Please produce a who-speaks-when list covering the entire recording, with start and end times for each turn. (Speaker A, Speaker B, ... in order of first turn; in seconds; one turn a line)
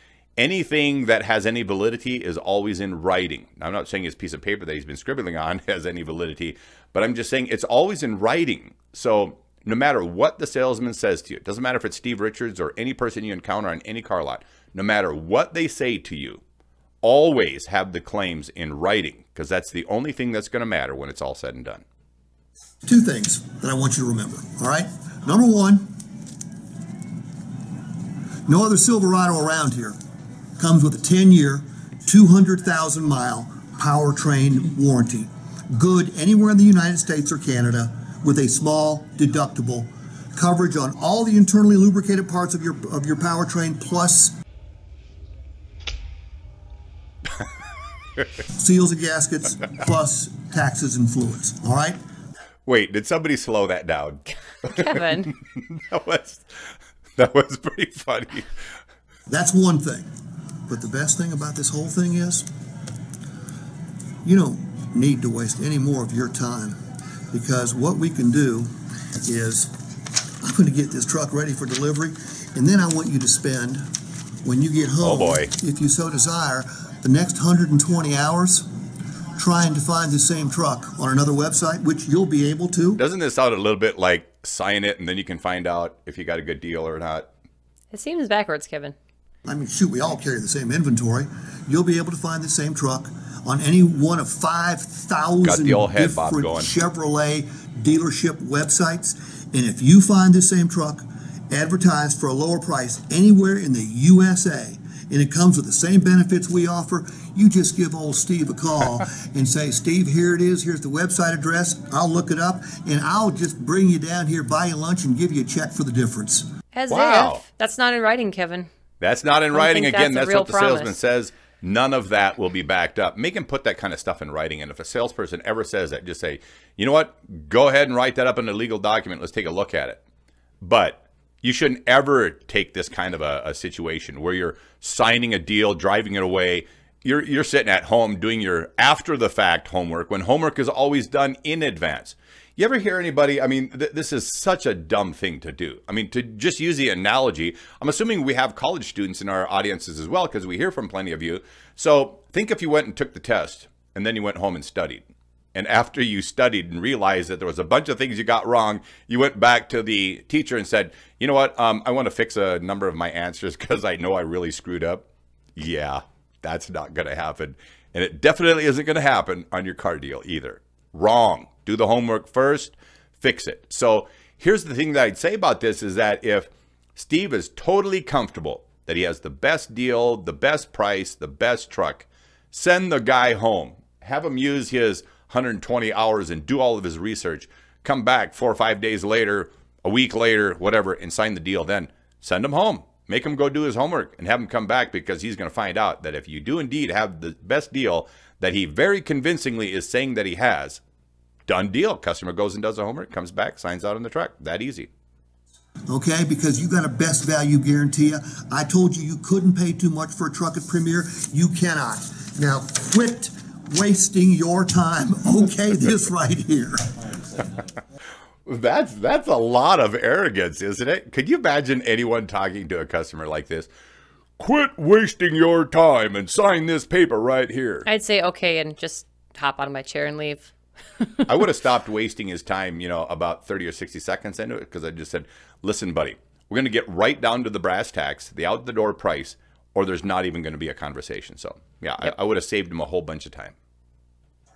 Speaker A: 0.4-16.4
Speaker A: 17.0-21.8
Speaker B: 22.9-26.0
Speaker B: 28.5-30.0
Speaker B: 30.6-44.3
Speaker B: 48.5-52.0
Speaker A: 52.7-56.6
Speaker C: 54.7-55.3
Speaker A: 57.2-58.5
Speaker B: 59.3-60.1
Speaker B: 60.7-62.5
Speaker B: 64.2-66.8
Speaker B: 67.3-69.7
Speaker B: 70.4-73.9
Speaker B: 74.4-78.7
Speaker A: 75.0-75.5
Speaker B: 79.4-83.0
Speaker A: 83.0-87.3
Speaker C: 87.9-89.0
Speaker B: 89.5-116.5
Speaker A: 95.4-96.7
Speaker C: 116.7-118.7
Speaker A: 116.9-117.4
Speaker A: 119.0-130.0
Speaker C: 119.5-120.9
Speaker A: 130.6-165.1
Speaker A: 165.6-200.8
Speaker A: 201.5-204.9
Speaker B: 205.9-217.4
Speaker A: 218.5-223.7
Speaker A: 224.4-227.9
Speaker C: 227.9-231.2
Speaker A: 231.3-243.6